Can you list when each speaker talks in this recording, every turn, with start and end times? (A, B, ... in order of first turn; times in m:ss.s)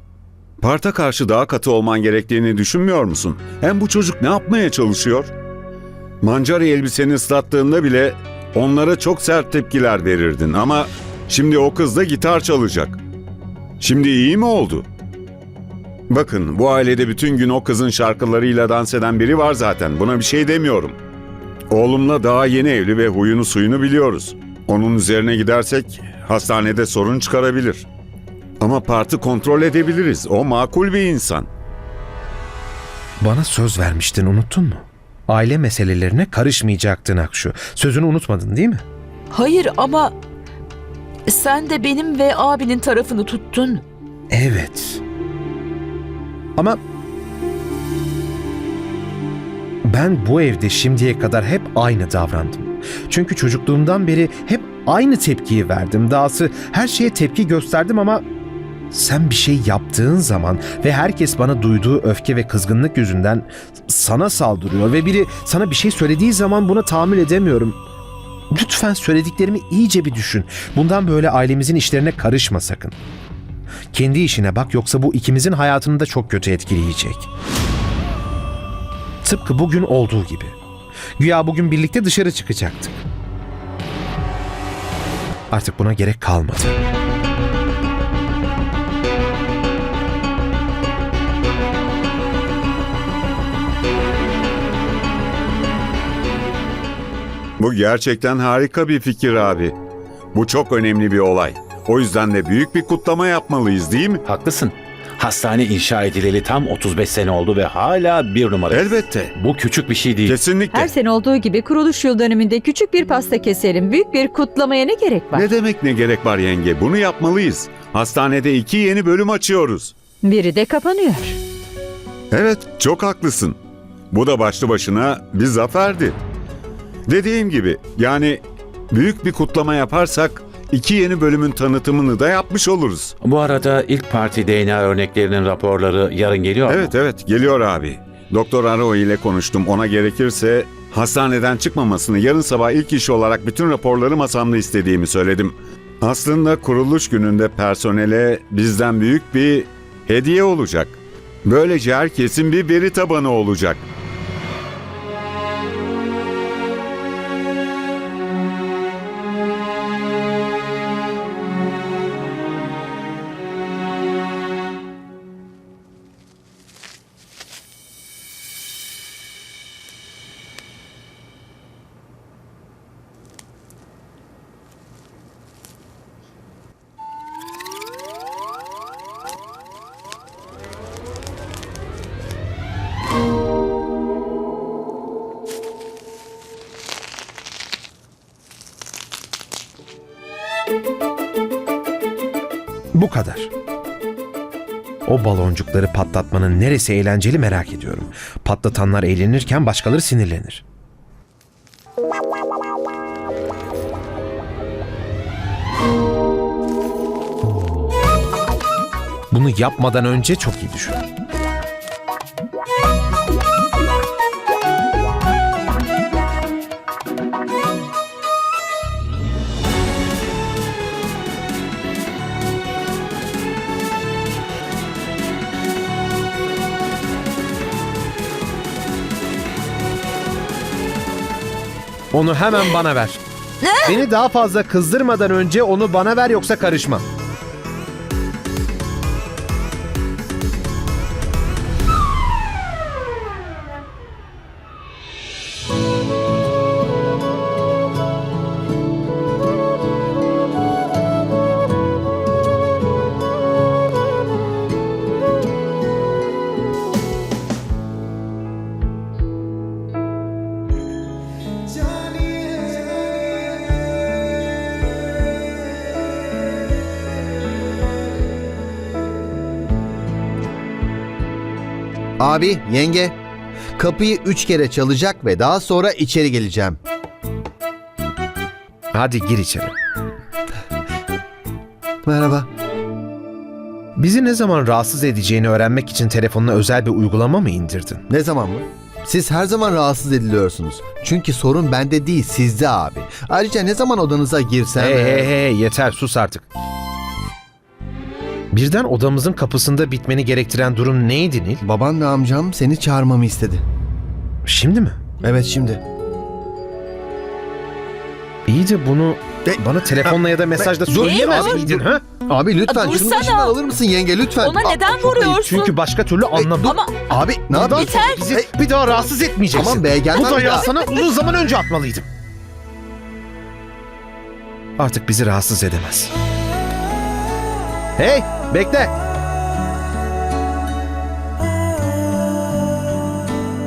0:00.6-0:05.3 A
0:06.2-0:13.0 A
0:13.8-0:14.9 A
0:16.1-0:21.0 A
0:21.7-0:27.8 A
0:28.6-0:31.5 A
0:33.2-0:38.8 B
0:39.3-0:40.1 C
0:41.3-0:43.8 C
0:44.3-0:45.0 B
0:49.8-0:58.2 B
0:58.9-1:07.8 B
1:08.5-1:13.0 B
1:13.9-1:17.3 B
1:19.2-1:20.6 B
1:21.2-1:23.0 B
1:25.5-1:26.8 B
1:37.6-1:39.7 A
1:40.3-1:44.2 A
1:44.3-1:50.4 D
1:48.7-1:49.3 A
1:50.2-1:50.9 A
1:50.7-1:55.5 E
1:55.3-1:59.9 A
2:00.2-2:01.4 E
2:02.3-2:03.6 A
2:04.1-2:06.2 A
2:07.1-2:13.1 A
2:13.2-2:16.9 D
2:16.7-2:33.8 A
3:12.9-3:13.5 B
3:15.0-3:20.6 B
3:29.3-3:31.0 B
3:52.1-3:53.2 B
3:53.6-3:54.0 C
3:53.8-3:57.0 B
4:32.2-4:33.2 F
4:33.8-4:36.8 F
4:38.9-4:39.7 B
4:42.0-4:42.5 F
4:44.0-4:48.0 B
4:48.1-4:55.3 F
4:54.8-4:56.4 B
4:58.5-5:01.6 B
5:01.6-5:03.6 F
5:04.4-5:05.0 B
5:05.2-5:05.8 F
5:08.5-5:12.0 B
5:09.4-5:15.2 F
5:11.0-5:11.8 C
5:12.7-5:13.6 C
5:14.4-5:15.7 C
5:15.2-5:16.8 B
5:16.4-5:18.5 F
5:16.6-5:17.1 C
5:17.5-5:22.1 B
5:17.7-5:18.3 C
5:19.5-5:20.7 F
5:24.8-5:26.1 B
5:28.0-5:28.9 B